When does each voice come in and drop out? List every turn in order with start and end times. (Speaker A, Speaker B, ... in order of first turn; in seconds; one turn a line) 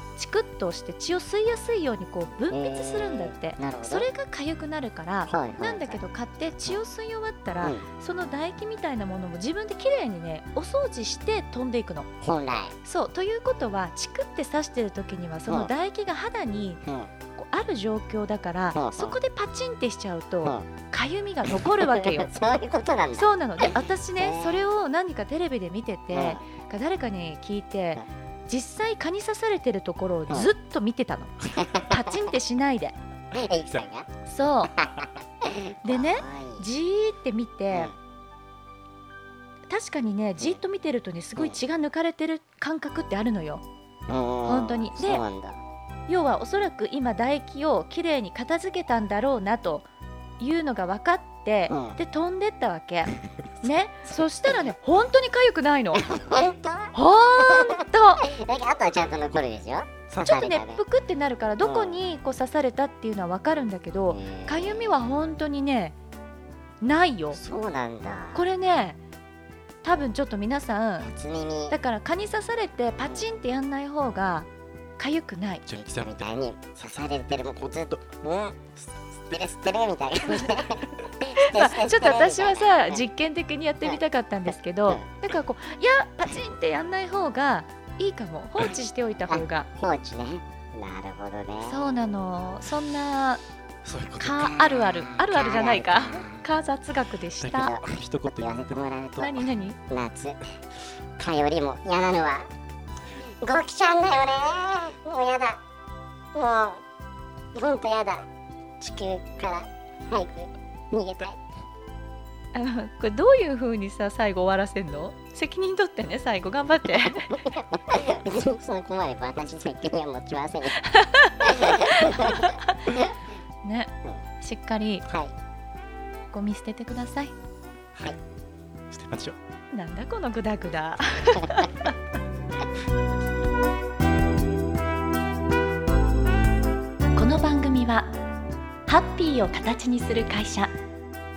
Speaker A: 0.2-12.1
Speaker B: 2.5-4.1
Speaker B: 5.3-6.0
Speaker B: 12.2-12.8
Speaker A: 12.8-16.8
Speaker B: 16.8-17.1
Speaker A: 17.3-22.3
Speaker B: 18.7-19.2
Speaker B: 21.6-24.7
Speaker A: 23.1-33.0
Speaker B: 26.1-26.4
Speaker B: 31.4-32.3
Speaker B: 33.3-34.1
Speaker A: 34.2-34.8
Speaker B: 34.8-36.7
Speaker A: 35.8-37.9
Speaker A: 39.7-43.6
Speaker B: 44.1-45.6
Speaker A: 44.4-45.2
Speaker A: 46.1-49.9
Speaker A: 50.4-56.1
Speaker B: 51.7-52.0
Speaker B: 54.4-54.7
Speaker B: 55.9-60.8
Speaker A: 56.9-58.3
Speaker A: 60.2-66.0
Speaker B: 61.6-62.0
Speaker B: 64.1-65.1
Speaker A: 66.8-67.4
Speaker B: 67.3-68.4
Speaker A: 68.3-69.0
Speaker A: 69.8-71.1
Speaker B: 71.0-71.8
Speaker A: 71.7-75.6
Speaker B: 73.0-73.3
Speaker B: 75.7-83.0
Speaker A: 81.4-89.7
Speaker B: 89.3-91.9
Speaker A: 91.6-93.4
Speaker C: 93.8-94.3
Speaker A: 94.2-97.7
Speaker B: 94.2-96.4
Speaker B: 97.4-100.4
Speaker C: 97.7-98.5
Speaker A: 99.2-99.8
Speaker B: 101.2-102.5
Speaker B: 103.4-105.6
Speaker B: 106.3-106.8
Speaker B: 107.5-108.2
Speaker B: 108.8-111.4
Speaker A: 112.5-117.4
Speaker B: 117.3-120.8
Speaker A: 120.8-123.0
Speaker B: 121.4-123.1
Speaker A: 123.6-125.0
Speaker B: 125.1-125.3
Speaker A: 126.3-127.3
Speaker C: 128.9-129.3
Speaker A: 129.7-131.9
Speaker A: 137.1-138.1
Speaker A: 138.9-140.7